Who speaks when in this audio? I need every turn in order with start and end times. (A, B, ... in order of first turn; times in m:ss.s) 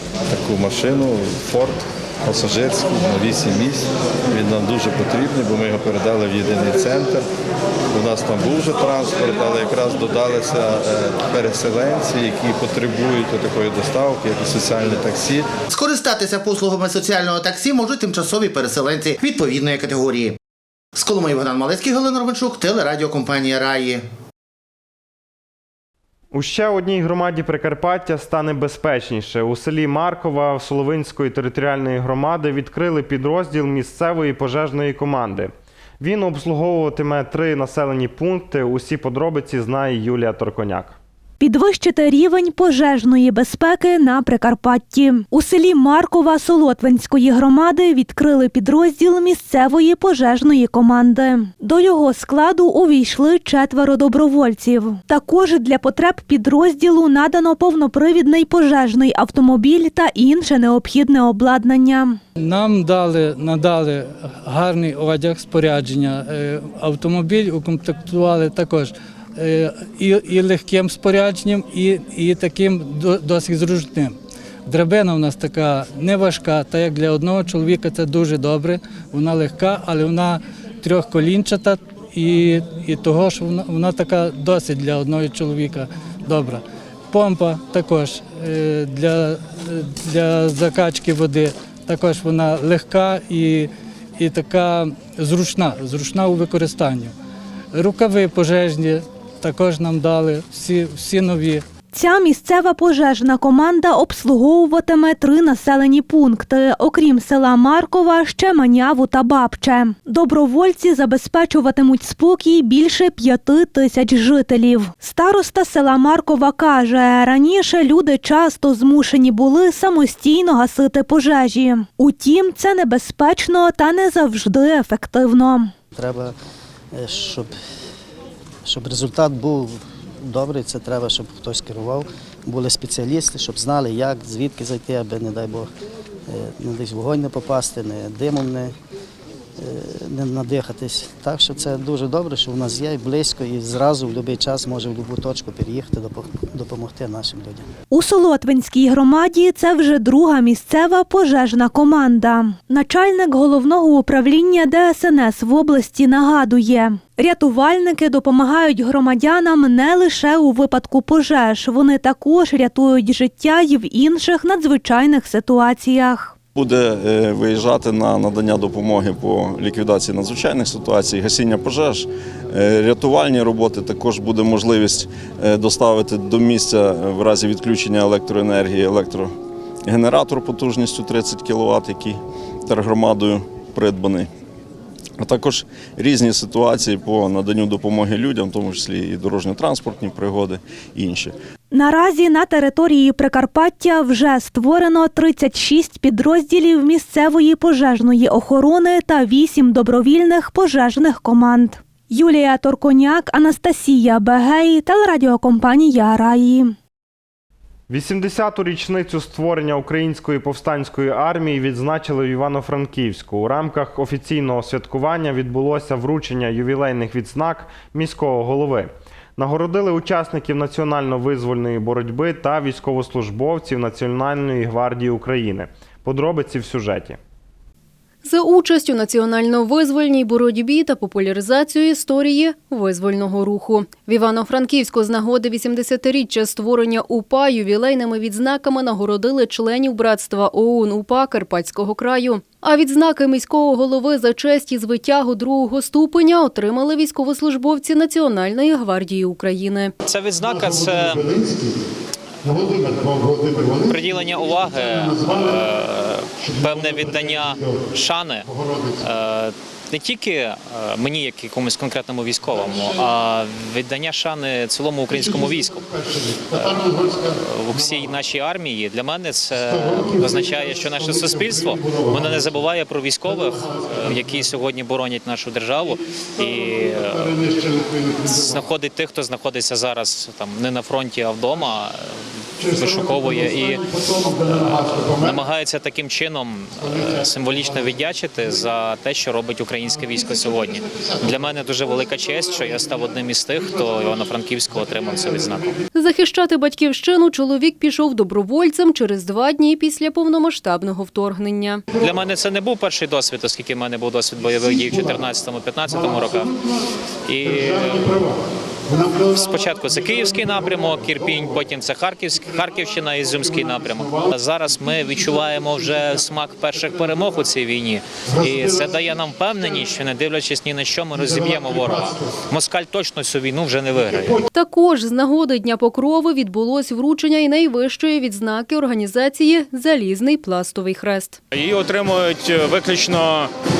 0:00.3-0:07.3 A
0:07.9-0:15.5 A
0:15.7-0:20.4 B
0:21.0-0:24.0 B
0:26.3-0:41.0 C
0:41.4-1:02.2 D
1:02.4-1:37.1 E
1:37.7-1:41.6 E
1:41.9-2:05.7 D
2:05.9-2:06.4 F
2:06.9-2:07.5 F
2:08.6-2:15.7 F
2:16.3-2:18.8 F
2:19.6-2:27.7 F
2:27.9-2:46.4 D
2:46.6-2:59.3 G
2:59.9-3:04.3 G
3:05.2-3:11.4 G
3:11.7-3:26.8 D
3:27.9-3:47.2 C
3:48.2-4:09.9 H
4:10.0-4:11.3 I
4:13.7-4:37.5 I
4:38.2-4:55.8 I
4:56.0-5:01.9 H
5:02.0-5:06.5 I
5:07.3-5:08.2 I
5:09.1-5:24.4 I
5:24.5-5:31.4 H
5:31.5-5:33.5 J